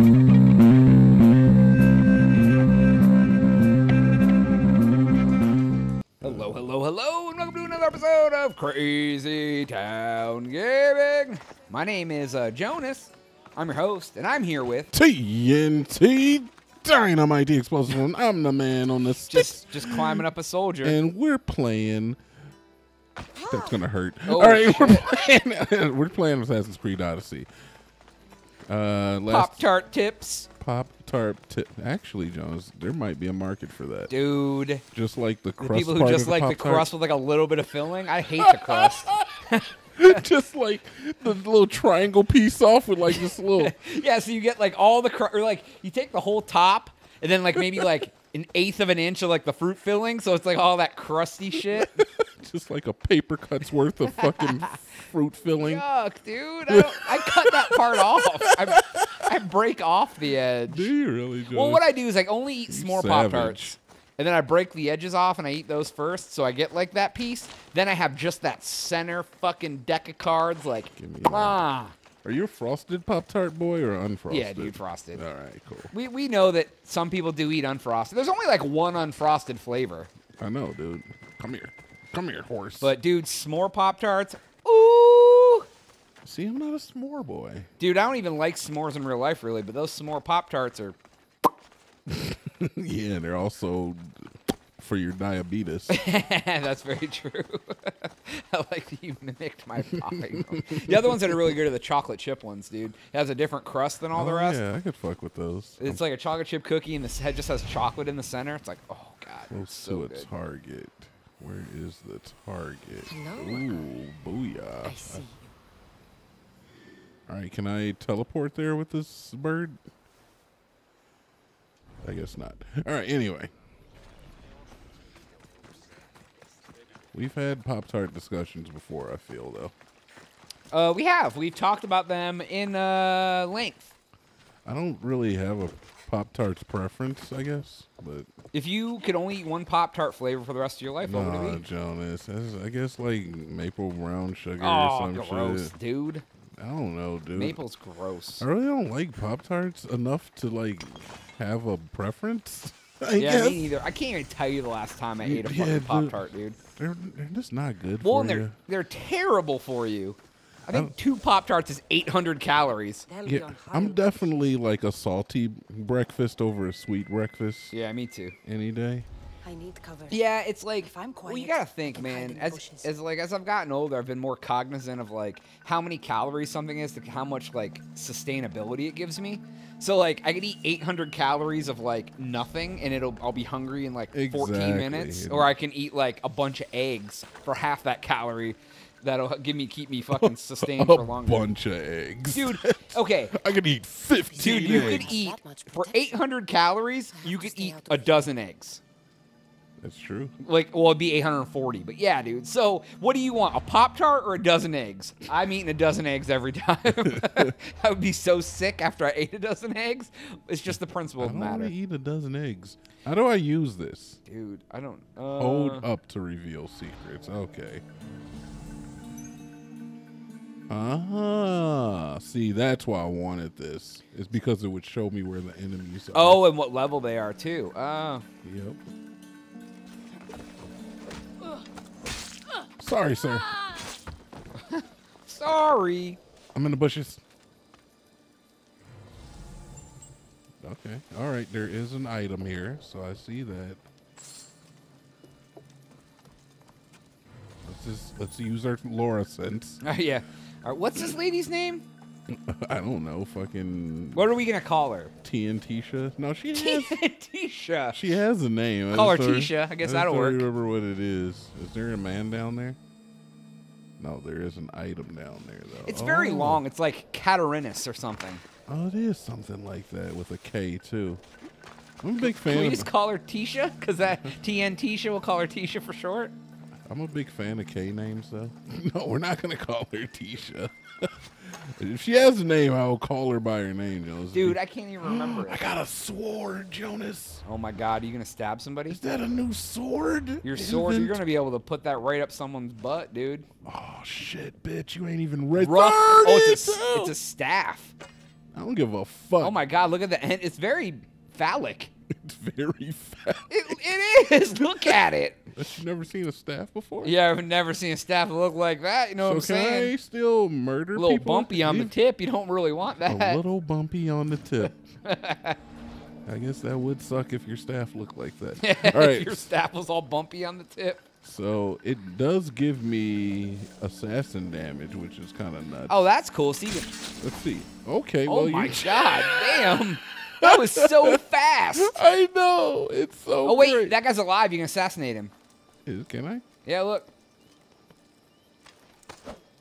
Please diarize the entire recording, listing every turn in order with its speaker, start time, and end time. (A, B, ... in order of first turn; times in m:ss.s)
0:06.2-0:14.9 A
0:06.2-0:06.5 B
0:14.9-0:20.2 B
0:19.3-0:21.0 A
0:20.8-0:22.2 B
0:23.4-0:27.5 B
0:24.3-0:25.1 A
0:28.7-0:29.7 B
0:29.3-0:30.5 A
0:30.6-0:34.1 B
0:34.1-0:34.8 A
0:34.9-0:36.9 B
0:35.6-0:40.2 A
0:38.4-0:43.8 B
0:43.1-0:52.0 A
0:47.6-0:47.9 B
0:51.6-0:55.8 B
0:54.1-0:54.8 A
0:55.6-1:00.9 A
0:56.7-0:59.3 B
1:00.7-1:02.0 B
1:01.5-1:12.0 A
1:02.7-1:03.8 B
1:11.0-1:11.6 B
1:12.2-1:15.9 B
1:14.3-1:15.2 A
1:15.9-1:20.1 A
1:20.4-1:22.9 B
1:22.8-1:25.7 A
1:26.2-1:27.7 B
1:27.8-1:31.0 A
1:32.1-1:36.0 B
1:35.9-1:44.6 A
1:39.8-1:41.6 B
1:44.1-1:46.0 B
1:45.8-1:50.3 A
1:49.5-1:55.2 B
1:53.1-1:53.9 C
1:54.8-1:55.5 C
1:57.3-1:59.8 B
2:02.0-2:03.5 B
2:07.1-2:09.7 B
2:10.7-2:13.9 A
2:14.6-2:18.3 B
2:18.5-2:21.6 A
2:21.0-2:25.7 B
2:24.6-2:26.2 A
2:26.6-2:27.6 B
2:27.3-2:28.4 A
2:28.4-2:33.7 B
2:33.2-2:36.6 A
2:35.2-2:38.6 B
2:38.0-2:43.1 A
2:43.1-2:44.2 C
2:43.2-2:47.7 B
2:47.7-2:48.4 A
2:48.4-2:49.1 B
2:49.4-2:50.2 C
2:50.1-3:11.5 A
2:50.8-2:52.9 C
3:04.1-3:05.5 B
3:10.1-3:15.1 B
3:12.3-3:13.3 A
3:14.3-3:16.1 C
3:14.4-3:18.8 A
3:17.1-3:18.1 C
3:19.8-3:20.3 B
3:20.4-3:31.7 A
3:26.9-3:27.6 B
3:31.2-3:34.2 B
3:34.2-3:35.9 A
3:35.4-3:37.8 B
3:40.7-3:46.4 B
3:46.1-3:48.2 A
3:48.4-3:48.8 B
3:52.8-3:53.5 B
3:54.5-3:56.2 A
3:56.5-3:57.2 B
4:00.6-4:03.8 B
4:07.6-4:09.8 B
4:09.8-4:11.8 A
4:12.3-4:14.4 B
4:14.1-4:15.1 A
4:15.2-4:17.0 B
4:16.5-4:18.1 A
4:17.9-4:22.8 B
4:18.9-4:20.4 A
4:24.0-4:26.6 B
4:25.8-4:28.4 A
4:28.7-4:31.2 B
4:32.0-4:32.9 B
4:32.2-4:36.3 A
4:36.9-4:47.4 B
4:44.3-4:45.6 A
4:47.4-4:49.0 A
4:48.9-4:51.2 B
4:50.4-4:53.5 A
4:53.6-4:57.1 B
4:55.6-4:57.9 A
4:58.5-4:59.6 B
4:59.4-5:01.9 A
5:02.2-5:03.8 B
5:03.5-5:05.5 A
5:05.5-5:07.2 B
5:07.0-5:09.9 A
5:09.2-5:11.9 B
5:10.9-5:13.4 A
5:13.0-5:14.8 B
5:15.0-5:15.6 A
5:16.2-5:19.5 B
5:18.6-5:21.0 A
5:21.2-5:26.1 B
5:25.9-5:26.9 A
5:27.2-5:31.2 B
5:28.3-5:32.0 A
5:31.7-5:34.0 B
5:33.4-5:35.3 A
5:35.8-5:36.4 B
5:36.6-5:37.1 A